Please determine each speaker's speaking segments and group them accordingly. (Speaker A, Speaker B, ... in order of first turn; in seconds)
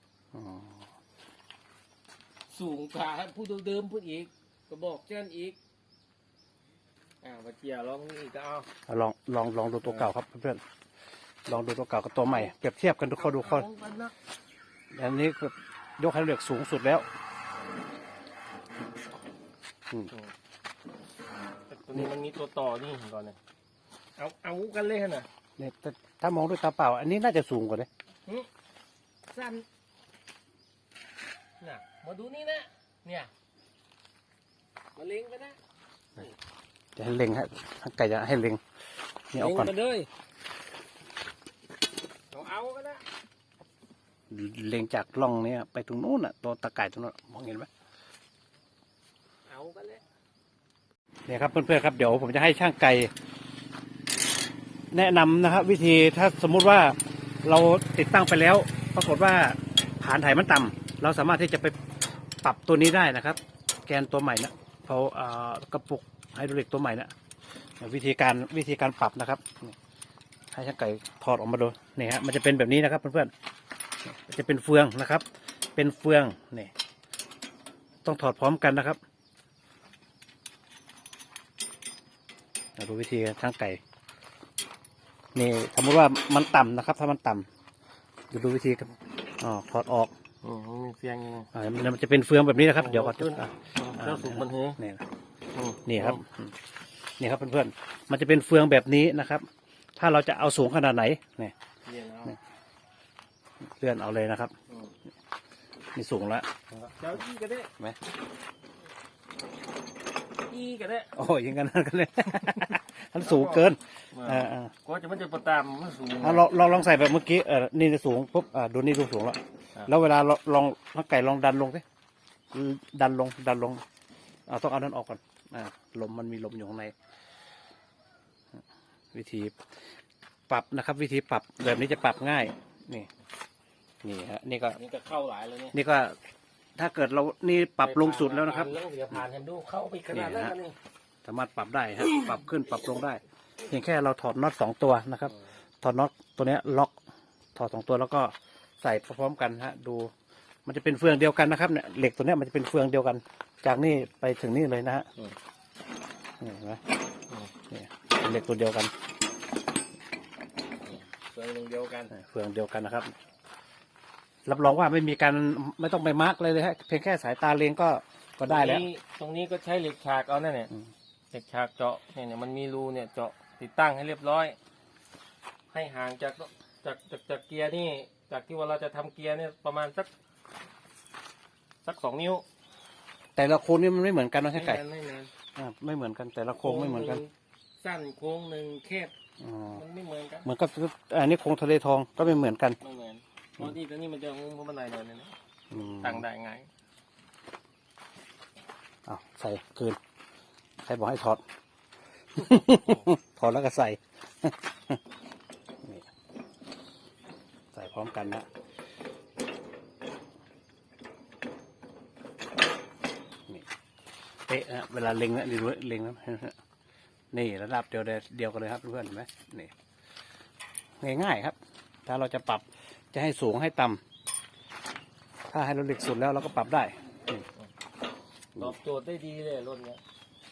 Speaker A: 0.3-0.9, 8.9-10.6, 11.4-13.7, 14.9-17.1, 25.6-27.9, 37.0-38.6, 39.3-39.7, 44.3-47.7, 51.3-53.1, 54.9-61.8, 62.4-67.1, 67.8-69.8, 70.5-73.3, 74.0-76.7, 78.0-79.0, 82.8-83.8, 85.3-87.5, 88.3-90.1, 91.5-95.0, 95.8-96.5, 97.2-101.5, 103.6-104.5, 105.9-106.5, 111.1-114.7, 116.2-121.8, 122.5-123.8, 124.5-126.9, 129.1-129.6, 130.5-133.1, 134.0-134.8, 135.7-136.2, 136.8-139.2, 140.1-140.5, 141.2-146.9, 147.5-150.1, 150.7-155.1, 156.4-156.8, 157.7-158.9, 162.1-163.1, 164.4-168.8, 183.3-184.8, 185.5-187.2, 189.4-189.8, 190.4-192.8, 195.7-196.2, 199.1-200.0, 200.8-201.4, 202.3-205.0, 207.7-208.5, 214.5-216.6, 217.3-219.7, 221.0-224.0, 225.5-227.4
Speaker B: 2.5-5.6, 7.2-8.7, 13.2-14.1, 21.7-23.4, 24.2-25.3, 29.3-29.6, 31.6-33.3, 35.0-35.6, 39.4-40.1, 42.3-43.0, 49.5-50.0, 90.4-91.5, 92.7-94.8, 95.5-96.2, 101.8-102.4, 104.7-104.9, 106.8-107.7, 110.5-111.1, 113.2-116.5, 134.8-135.8, 137.8-140.8, 161.2-162.1, 168.4-170.7, 171.3-174.6, 175.7-180.1, 181.8-182.4, 184.5-185.3, 186.6-189.1, 189.7-190.5, 192.8-195.3, 196.0-196.7, 228.6-230.0